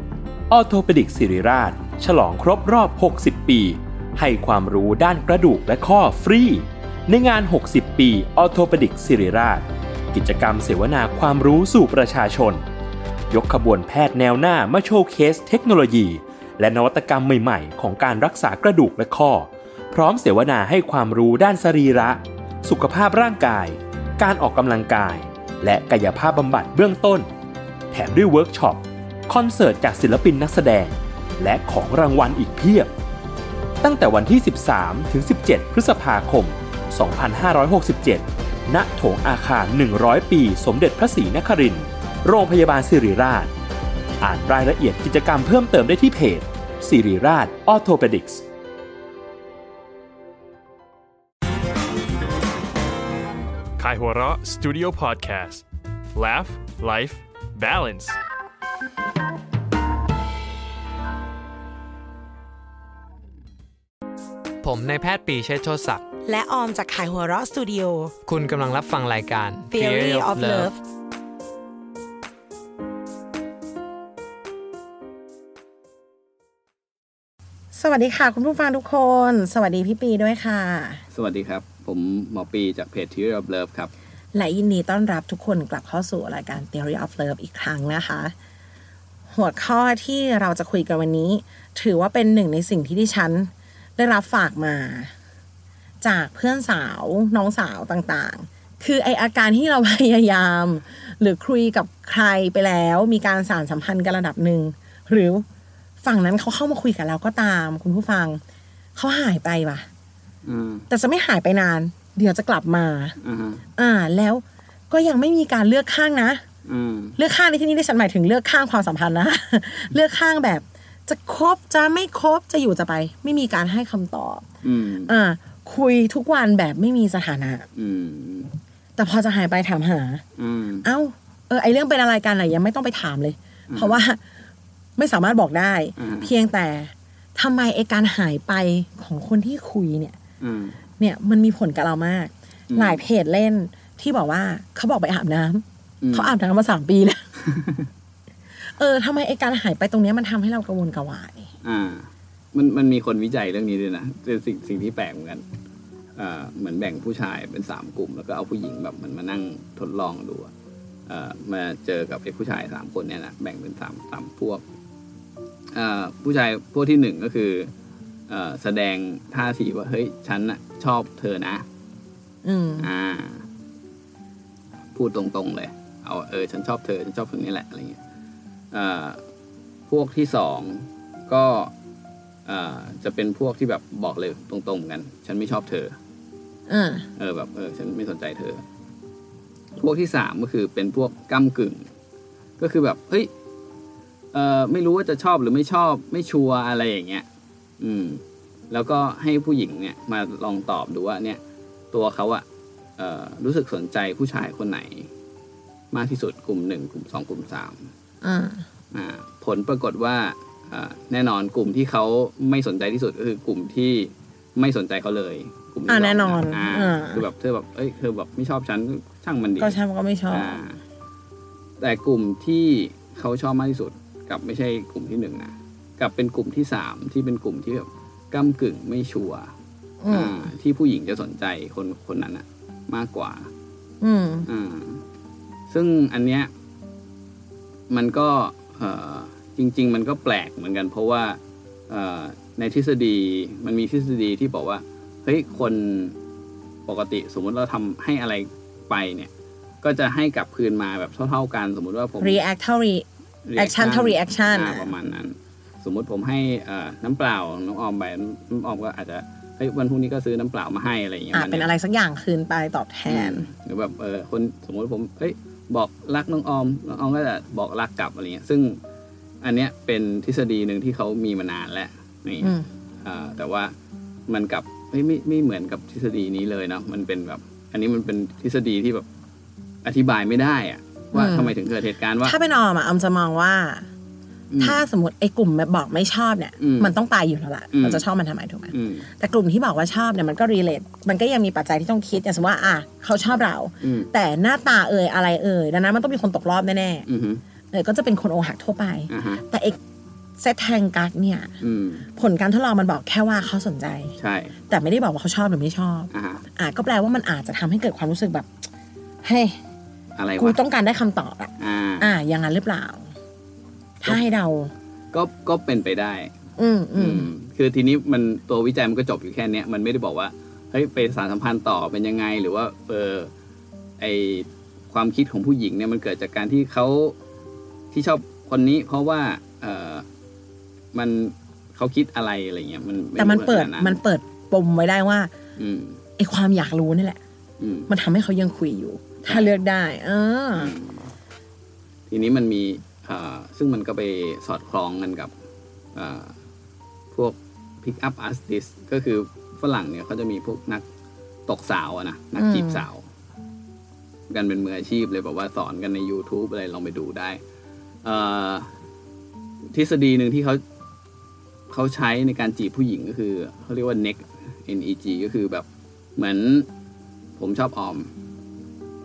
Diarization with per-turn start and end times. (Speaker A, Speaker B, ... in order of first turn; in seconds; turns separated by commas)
Speaker A: 0.5-12.6, Speaker A: 13.3-27.2, Speaker A: 27.9-32.9, Speaker A: 33.8-43.5, Speaker A: 44.2-48.4, Speaker B: 53.8-55.6, Speaker B: 56.1-58.2, Speaker C: 64.6-66.0, Speaker D: 66.2-68.2, Speaker C: 68.2-70.7, Speaker D: 69.7-70.7, Speaker D: 77.7-81.0, Speaker E: 81.1-83.9, Speaker D: 84.3-88.3, Speaker D: 89.3-95.1, Speaker D: 96.0-105.4, Speaker D: 106.0-108.4, Speaker D: 109.0-109.8, Speaker E: 110.4-110.9, Speaker D: 110.9-113.1, Speaker E: 113.2-113.6, Speaker D: 113.8-116.4, Speaker E: 116.7-117.2, Speaker D: 117.2-124.4, Speaker E: 124.6-125.1, Speaker D: 125.0-127.7, Speaker E: 127.7-128.6, Speaker D: 129.0-130.2, Speaker E: 130.4-130.8, Speaker D: 130.8-134.2, Speaker E: 133.7-134.0, Speaker D: 135.0-140.2, Speaker E: 136.0-136.3, Speaker E: 140.4-140.8, Speaker D: 141.0-147.2, Speaker E: 142.7-143.0, Speaker E: 146.0-146.3, Speaker D: 148.8-151.5, Speaker E: 151.6-155.4, Speaker E: 156.2-160.5, Speaker E: 161.1-164.6, Speaker E: 165.7-167.7, Speaker E: 168.3-171.6, Speaker D: 172.4-172.9, Speaker E: 172.8-173.4, Speaker E: 174.9-178.0, Speaker E: 178.7-179.2, Speaker E: 179.9-181.7, Speaker E: 182.4-185.9, Speaker D: 186.7-187.1, Speaker E: 187.2-188.6, Speaker E: 189.8-191.8, Speaker E: 192.6-193.3, Speaker E: 194.3-197.2, Speaker E: 197.8-201.4, Speaker E: 201.9-202.4, Speaker E: 203.0-205.1, Speaker E: 205.9-207.8, Speaker D: 208.2-208.6, Speaker E: 208.9-220.8, Speaker D: 215.9-217.3, Speaker D: 219.6-220.6, Speaker E: 221.8-229.5, Speaker D: 230.0-230.4, Speaker E: 230.1-233.5, Speaker D: 234.0-234.5, Speaker E: 234.4-235.0, Speaker E: 235.7-236.5, Speaker E: 237.9-246.2, Speaker E: 246.9-249.3, Speaker E: 249.8-252.4, Speaker D: 252.2-254.9, Speaker E: 253.4-261.7, Speaker D: 261.3-263.5, Speaker E: 263.1-268.8, Speaker E: 269.4-273.7, Speaker D: 272.4-272.7, Speaker E: 274.3-279.1, Speaker E: 279.8-282.4, Speaker D: 281.1-281.5, Speaker D: 282.2-283.9, Speaker E: 284.5-284.8, Speaker D: 284.6-297.1, Speaker E: 286.6-286.9, Speaker E: 287.7-288.0, Speaker E: 288.7-289.1, Speaker E: 293.8-294.1, Speaker E: 297.1-297.4, Speaker D: 297.7-299.8, Speaker E: 299.1-299.4, Speaker D: 300.4-301.5, Speaker E: 301.6-302.1, Speaker D: 302.1-304.1, Speaker E: 304.2-304.6, Speaker D: 304.7-308.5, Speaker E: 306.1-306.4, Speaker D: 309.2-309.6, Speaker E: 310.1-310.6, Speaker D: 310.4-313.1, Speaker E: 311.6-312.1, Speaker D: 314.0-314.7, Speaker E: 315.1-316.3, Speaker D: 316.6-317.3, Speaker E: 316.9-323.3, Speaker E: 324.0-327.1, Speaker E: 327.9-330.0, Speaker E: 330.9-334.0, Speaker D: 333.2-335.3, Speaker E: 335.6-336.0, Speaker D: 336.2-337.2, Speaker E: 337.6-337.9, Speaker D: 337.9-340.7, Speaker E: 339.2-339.5, Speaker E: 340.6-341.1, Speaker E: 342.1-345.3, Speaker E: 345.9-346.3, Speaker E: 347.1-350.9, Speaker E: 351.5-353.0, Speaker D: 352.4-352.9, Speaker E: 354.3-357.4, Speaker E: 358.0-358.7, Speaker E: 359.7-360.6, Speaker E: 361.7-365.6, Speaker E: 366.2-366.7, Speaker E: 367.4-368.1